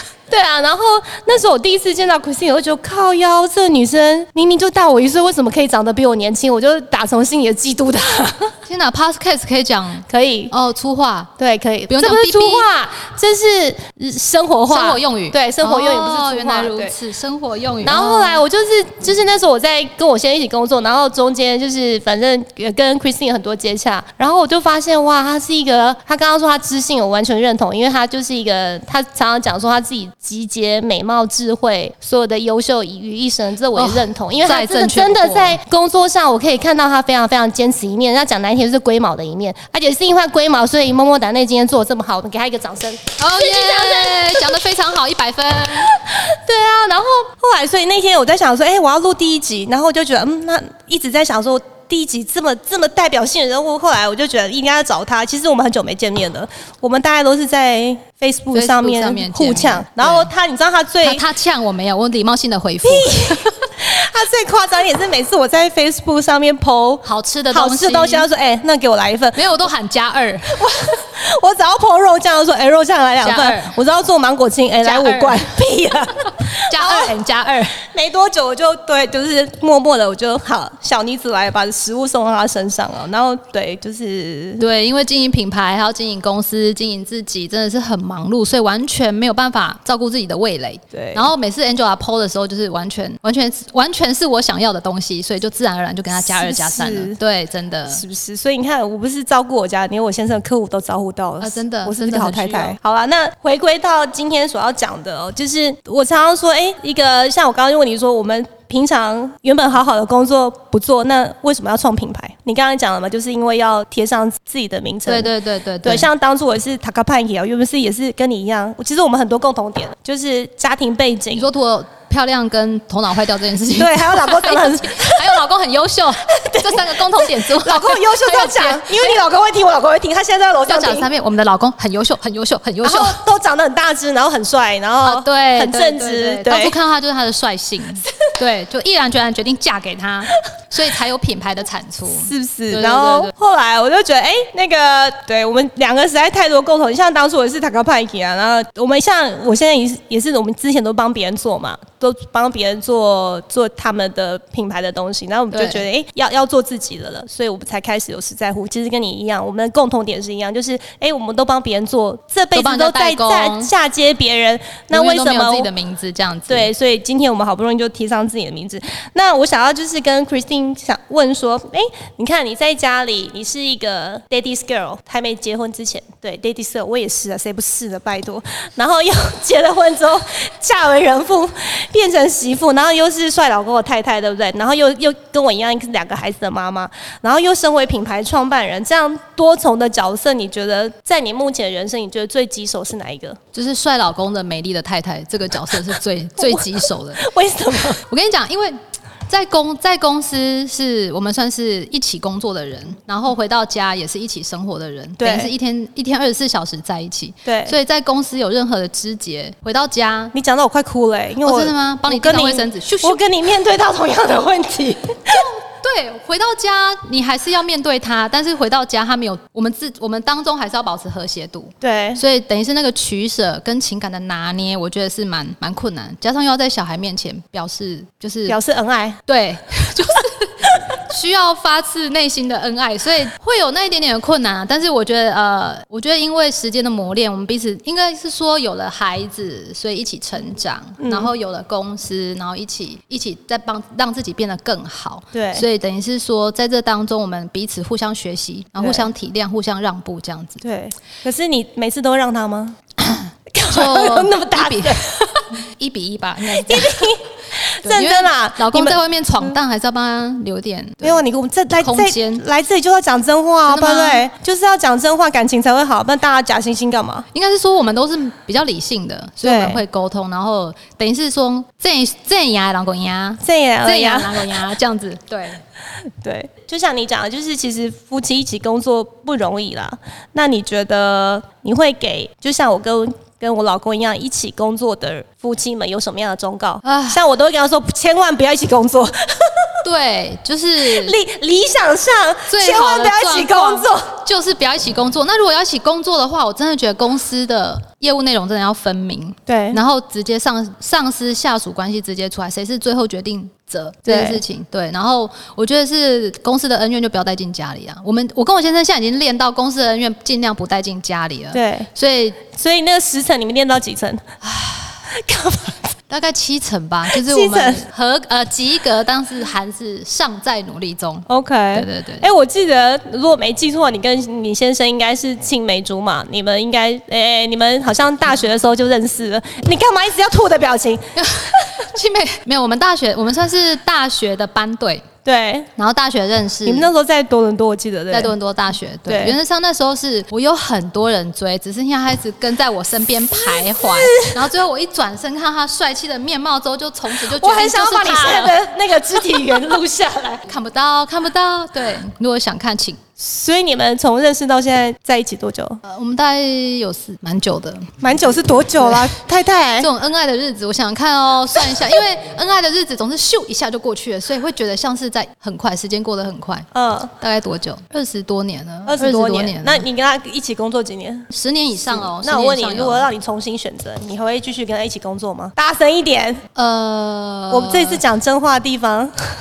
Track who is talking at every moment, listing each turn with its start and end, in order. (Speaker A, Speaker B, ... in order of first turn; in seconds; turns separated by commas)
Speaker A: 0.3-8.5, Speaker B: 8.7-11.3, Speaker A: 10.1-10.5, Speaker A: 11.4-16.9, Speaker B: 11.9-12.7, Speaker B: 14.7-18.4, Speaker A: 17.8-44.4, Speaker B: 33.8-35.6, Speaker B: 43.2-46.0, Speaker A: 45.8-61.3, Speaker B: 58.5-60.3, Speaker B: 61.0-63.5, Speaker A: 62.8-69.5, Speaker B: 67.0-68.3, Speaker B: 69.3-70.7, Speaker A: 70.5-77.2, Speaker B: 73.2-73.8, Speaker B: 74.8-75.5, Speaker B: 76.4-77.8, Speaker A: 77.8-84.7, Speaker B: 84.6-98.0, Speaker A: 90.9-91.3, Speaker A: 96.2-97.2, Speaker A: 97.9-115.3, Speaker B: 101.4-102.8, Speaker B: 115.1-116.1, Speaker A: 115.8-121.5, Speaker B: 121.3-129.2, Speaker A: 123.8-125.4, Speaker A: 126.3-131.1, Speaker B: 130.7-133.2, Speaker A: 132.8-136.8, Speaker B: 135.0-143.3, Speaker A: 142.1-165.7, Speaker B: 155.5-155.8, Speaker B: 162.5-163.7, Speaker B: 164.9-166.7, Speaker A: 166.5-193.4, Speaker B: 193.5-197.3, Speaker A: 196.4-198.0, Speaker B: 198.1-198.8, Speaker B: 199.3-210.3, Speaker A: 205.2-205.5, Speaker A: 207.4-207.8, Speaker A: 210.3-215.4, Speaker B: 211.4-213.2, Speaker B: 215.3-228.6, Speaker A: 221.8-222.2, Speaker A: 228.5-229.2, Speaker B: 229.3-250.6, Speaker A: 241.0-241.3, Speaker A: 245.3-245.7, Speaker A: 248.8-249.1, Speaker A: 250.6-252.8, Speaker B: 253.0-255.1, Speaker A: 253.5-255.4, Speaker B: 255.6-257.1, Speaker A: 256.5-259.6, Speaker B: 257.8-261.2, Speaker A: 261.0-267.3, Speaker B: 261.8-262.4, Speaker B: 263.7-264.3, Speaker B: 267.3-275.6, Speaker A: 269.4-269.8, Speaker A: 273.4-274.6, Speaker A: 276.2-289.7, Speaker B: 286.8-287.2, Speaker B: 289.8-291.2, Speaker A: 290.8-294.2, Speaker B: 292.5-312.4, Speaker A: 299.5-299.8, Speaker A: 304.1-304.4, Speaker A: 311.5-311.9, Speaker A: 312.5-314.4, Speaker B: 314.5-314.9, Speaker A: 315.1-315.9, Speaker B: 316.1-322.3, Speaker A: 317.1-317.8, Speaker A: 321.3-331.7, Speaker B: 331.2-335.1, Speaker A: 335.2-335.7, Speaker B: 335.8-336.9, Speaker A: 336.6-338.3, Speaker B: 338.1-348.6, Speaker A: 339.1-339.4, Speaker A: 343.4-344.4, Speaker A: 347.2-350.4, Speaker B: 350.5-353.0, Speaker A: 353.2-355.8, Speaker B: 355.8-357.9, Speaker A: 358.0-359.9, Speaker B: 359.8-366.7, Speaker A: 366.7-367.1, Speaker B: 367.2-369.9, Speaker A: 368.9-371.3, Speaker B: 371.3-373.1, Speaker A: 371.8-376.4, Speaker B: 376.6-378.0, Speaker A: 377.5-379.1